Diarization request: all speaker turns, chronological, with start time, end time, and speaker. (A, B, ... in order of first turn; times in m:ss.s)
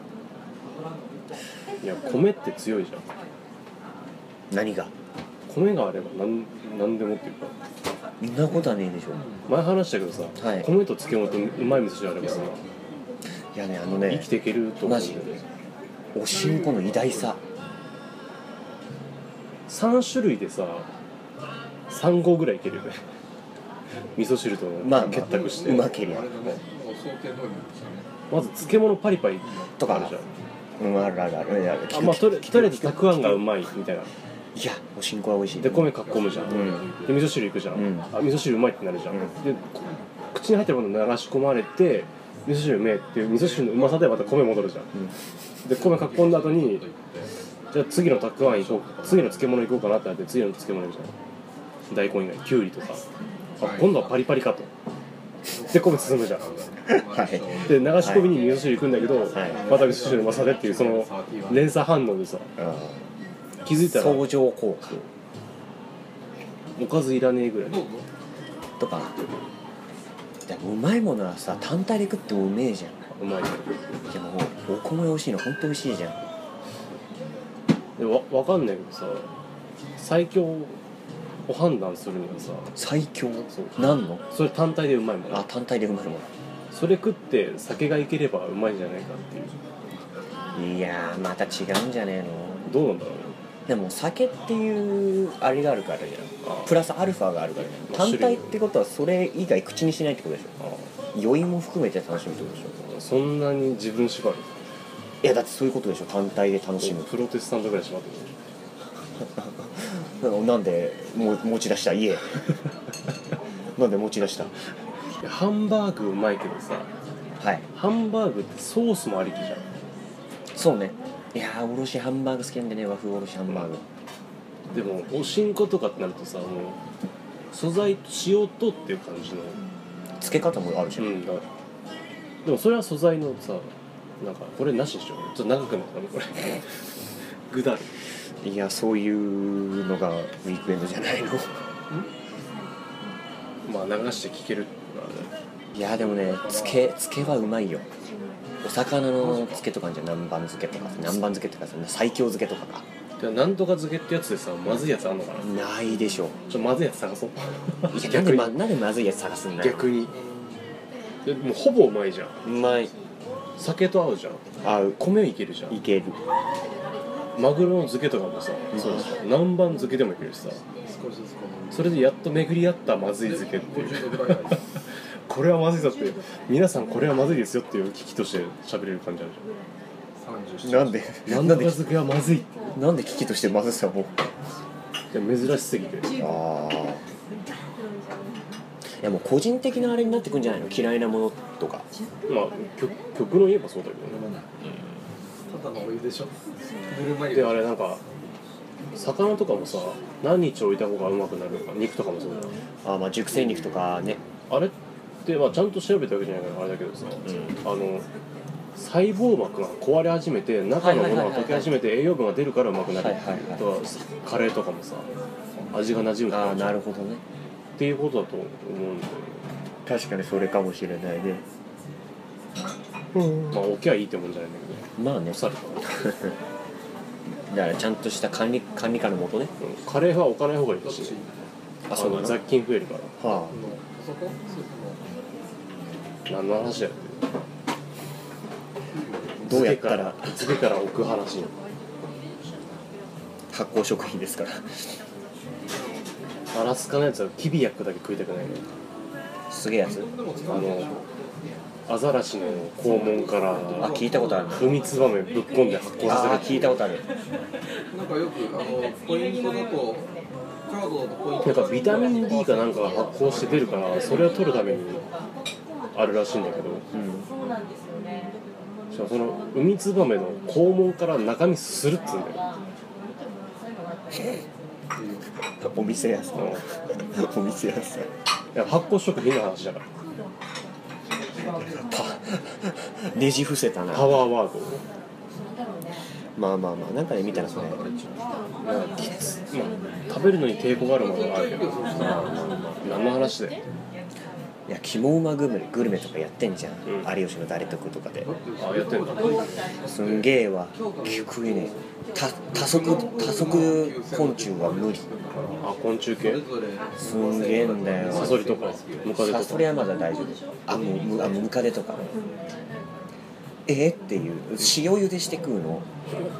0:01.8-0:03.1 A
0:04.5-0:04.9 B
0:05.5-0:07.5 A
0:08.2-0:09.2 B
0:09.2-0:09.5 C
0:09.4-0:12.6 A
0:10.4-0:10.7 B
0:13.5-0:14.3 B
0:13.9-0:15.4 A
0:14.8-0:15.2 B
0:16.1-0:17.4 B
0:16.3-0:17.4 C
0:19.7-0:20.9 A
0:21.9-0:23.0 A
0:24.1-0:25.9 A
0:24.8-0:26.6 B
0:25.0-0:28.1 C
0:28.3-0:30.3 A
0:29.8-0:30.2 B
0:30.8-0:33.4 B
0:31.9-0:34.1 A
0:34.5-0:36.8 B
0:35.6-0:44.9 A
0:36.0-0:37.3 C
0:37.7-0:38.1 B
0:43.3-0:44.6 C
0:45.6-0:46.8 A
0:45.7-0:47.3 C
0:47.7-0:51.1 A
0:48.4-0:49.7 C
0:51.9-0:53.0 A
0:53.6-0:54.3 C
0:53.6-0:54.7 A
0:55.5-0:58.3 C
0:55.6-0:56.6 A
0:56.8-0:58.4 B
0:57.6-1:02.5 A
0:59.3-0:59.6 B
0:59.3-1:01.7 C
1:02.6-1:03.1 B
1:03.6-1:04.4 A
1:03.8-1:05.0 B
1:06.8-1:07.9 A
1:07.6-1:08.1 C
1:08.8-1:09.1 B
1:10.4-1:13.0 B
1:13.1-1:13.9 A
1:14.1-1:16.2 B
1:18.0-1:19.3 A
1:20.0-1:20.8 A
1:21.4-1:22.7 A
1:22.7-1:24.2 B
1:23.5-1:25.5 A
1:25.3-1:26.3 B
1:26.7-1:29.6 A
1:30.5-1:32.7 B
1:32.6-1:33.4 A
1:33.7-1:40.5 B
1:36.4-1:36.7 A
1:37.8-1:38.6 A
1:40.6-1:40.9 A
1:41.1-1:42.8 B
1:42.7-1:44.5 A
1:45.2-1:47.1 B
1:46.8-1:48.3 A
1:49.2-1:52.7 B
1:53.8-1:54.5 B
1:55.2-1:56.9 A
1:57.4-1:57.6 B
1:57.7-1:59.7 A
2:00.6-2:03.8 B
2:04.7-2:06.8 A
2:07.5-2:09.6 A
2:10.2-2:11.4 B
2:11.0-2:11.4 A
2:12.4-2:16.7 A
2:17.5-2:17.9 A
2:18.4-2:21.6 B
2:23.6-2:25.3 A
2:25.7-2:27.9 B
2:26.1-2:26.8 C
2:28.6-2:32.8 B
2:29.2-2:29.6 C
2:33.2-2:35.7 A
2:35.4-2:36.4 B
2:36.5-2:38.6 A
2:37.9-2:39.9 B
2:39.6-2:40.2 A
2:40.1-2:40.4 C
2:41.2-2:42.4 A
2:42.4-2:42.9 B
2:43.6-2:44.4 A
2:44.6-2:45.0 B
2:45.0-2:45.8 A
2:45.7-2:46.2 B
2:47.3-2:50.6 A
2:48.7-2:49.2 B
2:50.8-2:52.0 C
2:51.7-2:54.6 A
2:53.2-2:54.6 C
2:55.3-2:59.4 A
3:00.2-3:01.1 C
3:00.6-3:01.8 B
3:01.2-3:02.7 A
3:02.7-3:04.2 B
3:05.1-3:06.1 A
3:06.1-3:07.0 B
3:09.0-3:11.9 B
3:12.3-3:14.3 A
3:14.1-3:14.5 C
3:15.5-3:16.3 C
3:16.9-3:17.7 C
3:17.3-3:18.0 A
3:18.9-3:22.6 A
3:22.8-3:24.2 B
3:24.5-3:24.7 A
3:25.2-3:28.1 A
3:27.3-3:27.5 B
3:28.7-3:35.1 A
3:30.8-3:31.8 B
3:32.9-3:33.6 B
3:35.7-3:36.8 A
3:36.3-3:37.2 B
3:37.8-3:39.4 A
3:39.8-3:41.4 B
3:43.2-3:43.6 B
3:43.5-3:46.0 A
3:45.0-3:46.3 B
3:47.3-3:49.5 B
3:49.6-3:51.2 A
3:50.8-3:51.5 C
3:51.8-3:52.4 B
3:51.9-3:53.3 A
3:53.2-3:53.6 B
3:53.5-3:55.0 C
3:56.3-3:57.2 A
3:58.9-3:59.5 C
3:59.4-4:00.4 B
3:59.4-4:01.5 A
4:03.5-4:04.8 B
4:06.5-4:08.6 A
4:09.5-4:10.1 B
4:09.9-4:11.1 C
4:10.5-4:11.0 A
4:11.9-4:16.8 A
4:13.8-4:14.7 B
4:16.0-4:17.0 B
4:17.9-4:20.1 C
4:20.6-4:24.3 C
4:21.4-4:25.1 A
4:25.9-4:26.8 A
4:26.9-4:27.3 B
4:28.9-4:32.4 A
4:34.1-4:34.4 B
4:35.0-4:35.2 C
4:35.6-4:38.1 B
4:36.3-4:36.6 A
4:38.5-4:39.9 A
4:41.6-4:44.2 B
4:43.9-4:44.8 A
4:46.4-4:47.8 B
4:47.3-4:48.6 C
4:48.6-4:53.6 A
4:50.9-4:52.7 C
4:52.0-4:52.8 B
4:54.7-4:58.3 B
4:58.2-5:01.8 C
4:58.6-4:59.7 A
4:59.8-5:05.0 B
5:02.5-5:09.2 C
5:05.6-5:06.4 A
5:07.0-5:08.4 B
5:08.0-5:09.9 A
5:09.1-5:12.2 B
5:13.7-5:15.9 B